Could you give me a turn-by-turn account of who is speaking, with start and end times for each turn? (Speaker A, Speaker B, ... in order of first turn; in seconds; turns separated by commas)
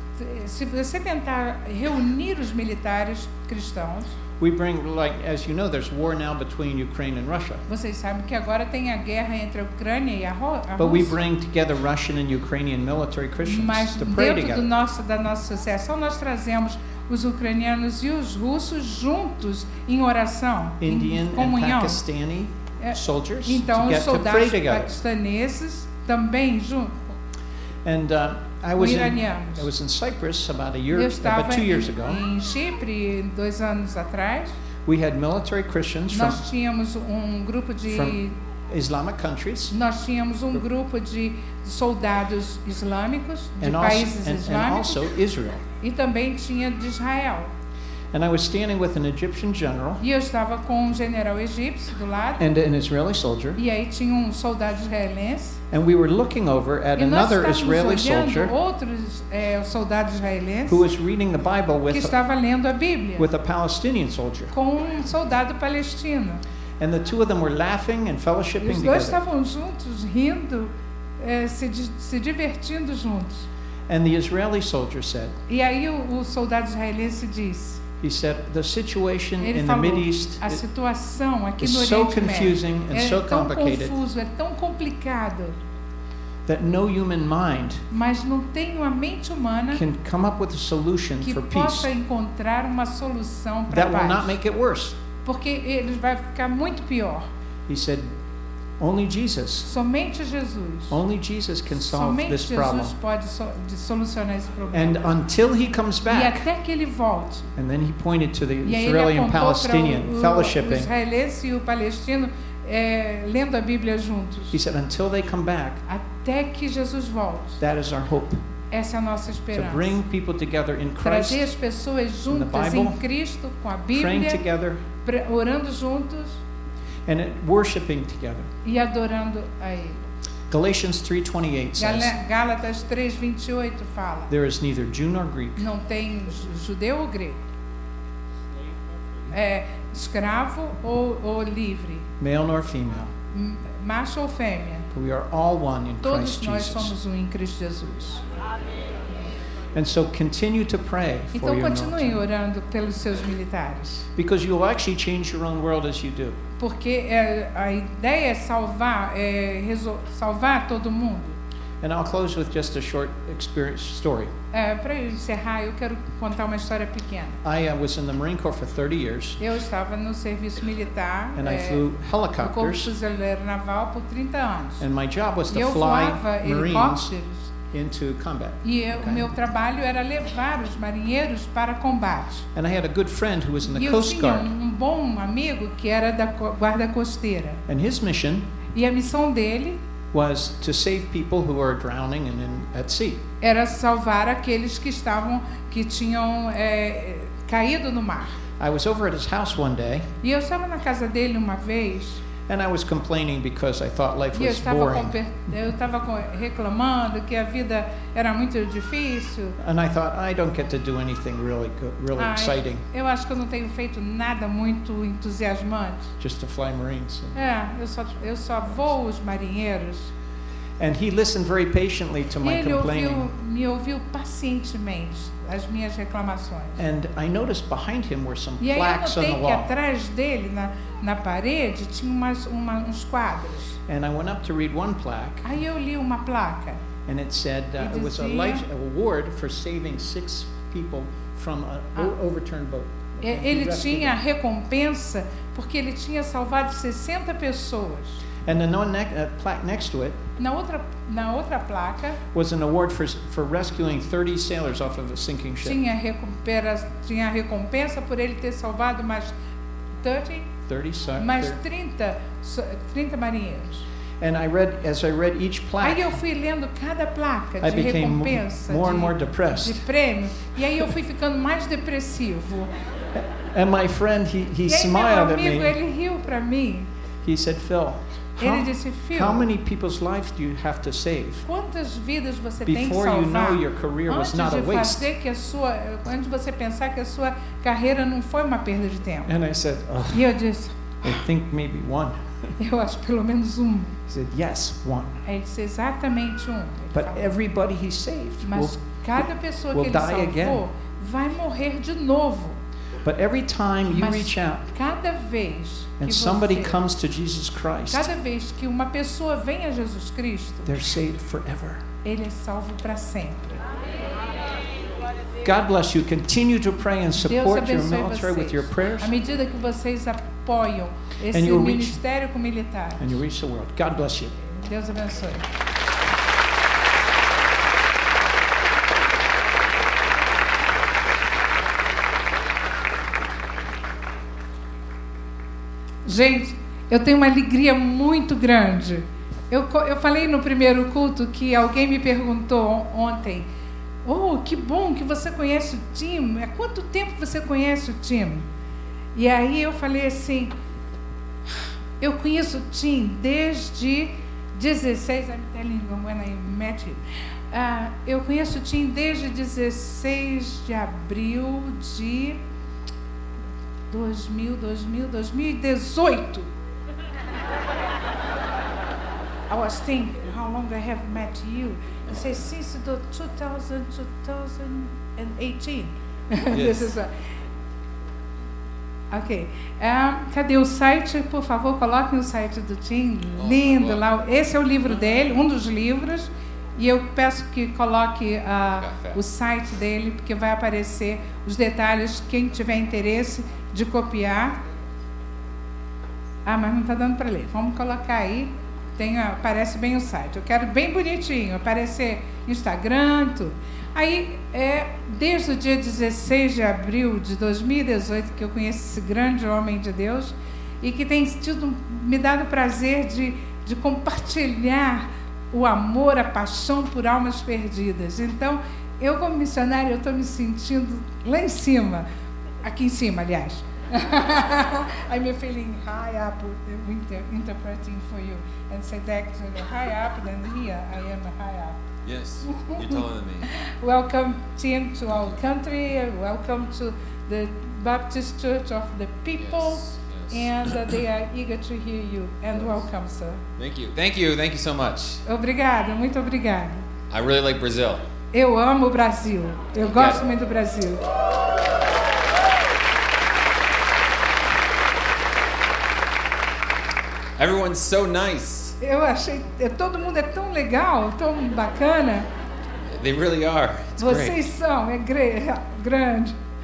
Speaker A: 0.2-4.1, Speaker B: 4.4-7.6, Speaker A: 7.7-11.1, Speaker B: 10.8-14.7, Speaker A: 13.4-22.0, Speaker B: 20.8-24.9, Speaker A: 22.8-27.1, Speaker B: 27.8-32.2, Speaker A: 28.8-29.7, Speaker A: 30.9-34.5, Speaker B: 34.9-36.4, Speaker A: 36.1-38.3, Speaker B: 37.9-39.7, Speaker A: 39.7-45.0, Speaker B: 43.6-45.6, Speaker A: 45.8-47.5, Speaker B: 48.1-50.0, Speaker A: 50.0-52.4, Speaker B: 52.4-53.6, Speaker A: 53.5-55.6, Speaker B: 55.7-58.5, Speaker A: 57.0-60.8, Speaker B: 60.7-62.1, Speaker A: 61.9-63.3, Speaker B: 63.2-64.5, Speaker A: 64.5-66.4, Speaker B: 66.8-69.2, Speaker A: 68.6-73.5, Speaker B: 73.9-75.4, Speaker A: 75.5-77.8, Speaker B: 78.0-80.6, Speaker A: 79.4-85.5, Speaker B: 81.6-84.0, Speaker B: 86.5-87.8, Speaker A: 87.9-89.8, Speaker B: 89.7-91.9, Speaker A: 91.2-94.3, Speaker B: 93.7-95.0, Speaker A: 95.2-97.3, Speaker B: 97.7-98.1, Speaker B: 98.8-99.7, Speaker A: 99.7-101.0, Speaker B: 100.9-102.9, Speaker A: 101.7-105.1, Speaker B: 104.7-106.5, Speaker A: 106.1-107.5, Speaker B: 107.6-110.9, Speaker A: 108.6-114.5, Speaker B: 114.5-115.8, Speaker A: 115.9-117.6, Speaker B: 117.6-118.4, Speaker A: 118.7-120.0, Speaker B: 119.5-121.5, Speaker A: 121.0-124.4, Speaker B: 122.3-123.0, Speaker B: 123.9-124.8, Speaker A: 125.0-126.4, Speaker B: 127.1-128.5, Speaker A: 128.6-130.0, Speaker B: 130.5-132.2, Speaker A: 131.8-134.3, Speaker B: 134.3-135.7, Speaker A: 135.6-137.4, Speaker A: 139.3-142.1, Speaker B: 142.2-143.1, Speaker A: 143.3-144.9, Speaker B: 144.9-146.9, Speaker A: 146.0-148.2, Speaker B: 149.7-152.2, Speaker A: 151.3-154.1, Speaker B: 154.2-156.4, Speaker A: 156.6-161.4, Speaker B: 161.8-164.3, Speaker A: 164.5-167.4, Speaker B: 167.4-169.4, Speaker A: 169.4-171.9, Speaker B: 171.3-172.9, Speaker A: 172.4-174.8, Speaker B: 174.8-177.1, Speaker A: 175.5-177.5, Speaker B: 177.7-179.3, Speaker A: 178.6-182.5, Speaker B: 182.5-184.5, Speaker A: 183.6-187.6, Speaker B: 187.7-188.5, Speaker A: 188.7-189.8, Speaker B: 190.1-193.2, Speaker A: 193.4-198.4, Speaker B: 198.6-200.1, Speaker A: 200.2-202.2, Speaker B: 202.5-205.1, Speaker A: 204.3-209.6, Speaker B: 209.6-212.8, Speaker A: 212.2-216.1, Speaker B: 216.2-217.4, Speaker A: 217.3-220.1, Speaker B: 220.8-223.3, Speaker A: 222.4-226.8, Speaker B: 226.8-229.7, Speaker A: 228.6-233.8, Speaker B: 233.9-235.5, Speaker A: 235.4-236.8, Speaker B: 237.1-244.2, Speaker A: 237.8-238.6, Speaker A: 243.2-248.2, Speaker B: 248.4-250.2, Speaker A: 250.4-252.2, Speaker B: 252.3-255.8, Speaker A: 255.6-259.3, Speaker A: 260.0-260.5, Speaker B: 260.7-261.6, Speaker A: 261.2-263.9, Speaker B: 264.2-266.1, Speaker A: 265.8-272.7, Speaker B: 267.6-269.8, Speaker B: 273.1-275.7, Speaker A: 274.6-276.9, Speaker B: 277.2-281.4, Speaker A: 278.4-279.5, Speaker A: 281.4-289.3, Speaker B: 282.6-285.1, Speaker B: 289.2-290.3, Speaker A: 290.1-290.9, Speaker B: 291.0-292.5, Speaker A: 292.6-293.9, Speaker B: 294.1-295.2, Speaker A: 295.2-297.3, Speaker B: 296.9-300.6, Speaker A: 298.4-302.6, Speaker B: 303.0-304.6, Speaker A: 303.9-306.8, Speaker B: 306.0-308.1, Speaker A: 307.9-310.8, Speaker B: 310.6-311.8, Speaker A: 312.0-313.6, Speaker B: 315.4-319.1, Speaker A: 317.1-323.1, Speaker B: 321.3-322.0, Speaker B: 323.0-324.3, Speaker A: 324.5-325.4, Speaker A: 336.0-343.5, Speaker A: 344.0-348.4, Speaker A: 349.1-350.5, Speaker A: 352.0-362.4, Speaker A: 363.9-366.5, Speaker A: 369.5-377.1, Speaker C: 376.5-376.9, Speaker A: 379.1-394.6, Speaker C: 383.4-384.0, Speaker C: 388.8-389.2, Speaker A: 396.4-422.0, Speaker A: 422.6-431.8, Speaker C: 432.1-433.5, Speaker A: 432.4-443.4, Speaker C: 439.4-440.5, Speaker C: 443.6-445.2, Speaker A: 445.2-446.8, Speaker C: 447.1-448.0, Speaker A: 448.3-451.0, Speaker C: 449.8-450.2, Speaker C: 457.4-458.8, Speaker A: 458.8-462.3, Speaker C: 463.0-464.4, Speaker A: 464.0-466.3